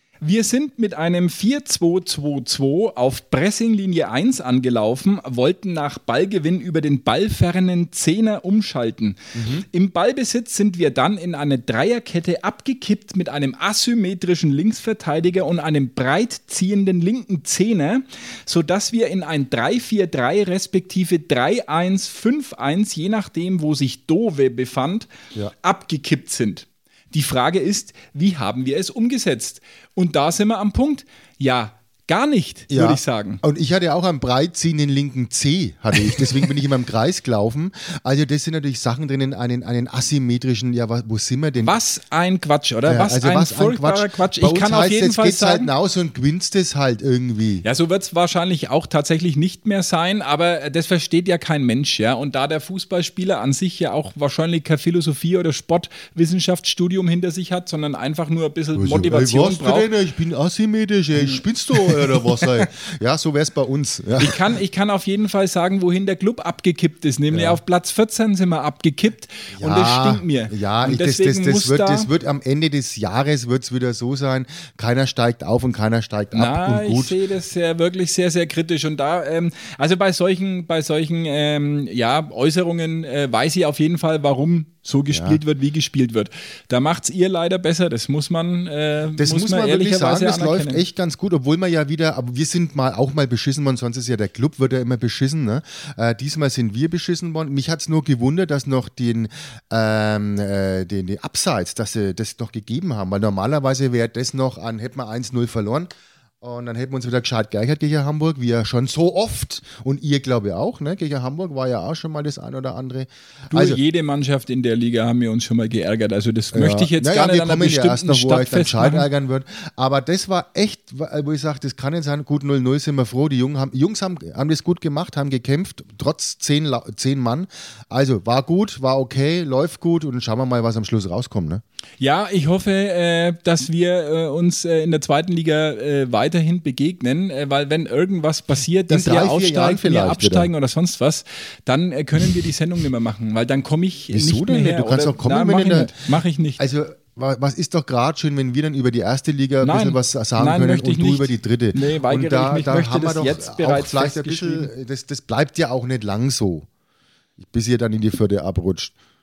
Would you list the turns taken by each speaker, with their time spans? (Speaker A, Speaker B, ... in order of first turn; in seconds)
Speaker A: 0.2-25.1, 25.6-33.4, 41.6-45.7, 47.6-59.9, 61.2-62.6, 64.2-72.1, 76.3-90.8, 113.5-119.1, 132.0-146.6, 149.6-154.7
Speaker B: 9.3-9.7, 32.7-41.8, 42.9-47.6, 58.8-64.4, 67.3-67.6, 69.6-77.2, 85.1-85.4, 89.2-113.8, 116.5-131.6, 138.9-140.5, 144.1-146.0, 146.6-156.7, 157.4-158.9